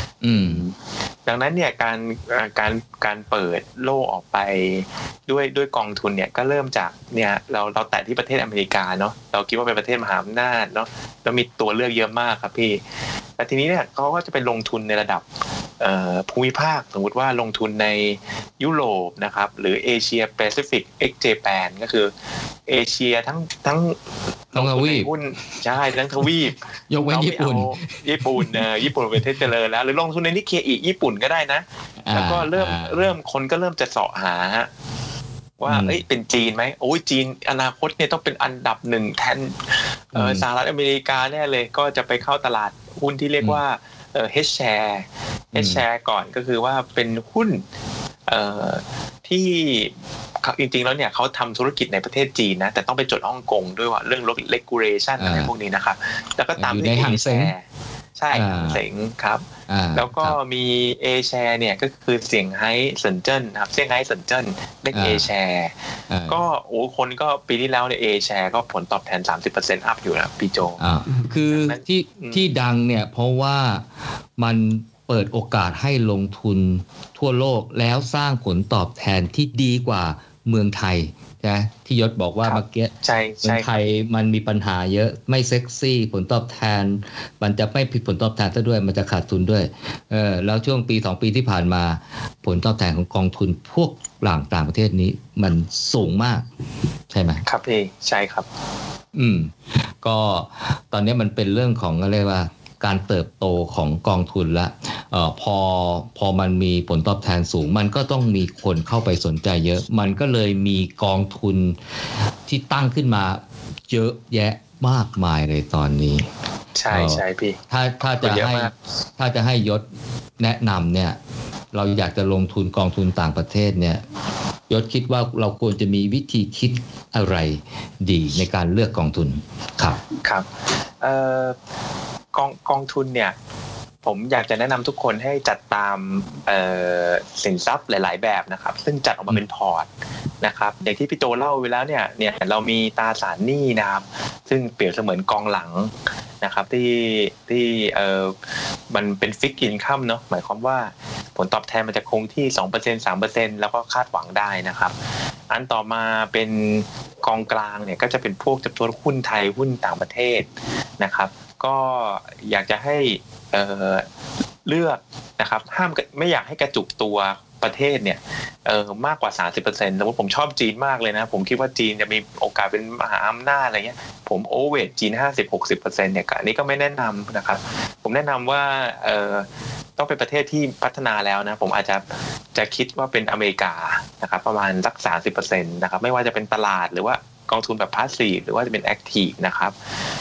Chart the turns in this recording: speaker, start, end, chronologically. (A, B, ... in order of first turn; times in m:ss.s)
0:00.2-0:00.6 A
0:00.4-0:12.8 B
0:13.4-0:15.2 B
0:15.8-0:22.1 B
0:22.7-0:24.0 B
0:24.5-0:25.1 A
0:24.5-0:34.7 B
0:26.9-0:28.7 A
0:32.0-0:33.1 A
0:35.6-0:47.6 B
0:35.7-0:36.0 A
0:40.1-0:40.4 A
0:45.5-0:45.8 A
0:48.3-0:57.6 B
0:55.2-0:55.5 A
0:56.6-0:57.5 A
0:58.2-1:05.7 B
0:58.3-0:58.8 A
0:59.7-1:00.4 A
1:04.9-1:05.2 A
1:06.1-1:06.4 A
1:06.3-1:10.8 B
1:10.8-1:13.8 A
1:11.4-1:12.5 B
1:14.4-1:22.9 A
1:22.4-1:23.8 B
1:23.4-1:36.4 A
1:37.1-1:37.4 A
1:37.4-1:38.5 B
1:39.1-1:51.8 A
1:52.4-1:56.2 A
1:56.8-1:57.6 B
1:56.9-1:59.8 A
1:58.2-1:58.7 B
2:00.4-2:01.2 A
2:01.7-2:04.0 A
2:04.7-2:10.0 A
2:10.2-2:10.5 B
2:11.0-2:11.6 B
2:12.3-2:13.3 B
2:14.0-2:19.9 B
2:20.4-2:28.3 B
2:28.9-2:34.9 B
2:35.5-2:40.5 B
2:41.0-2:44.0 B
2:44.6-2:59.5 B
3:00.0-3:02.0 B
3:02.5-3:09.7 B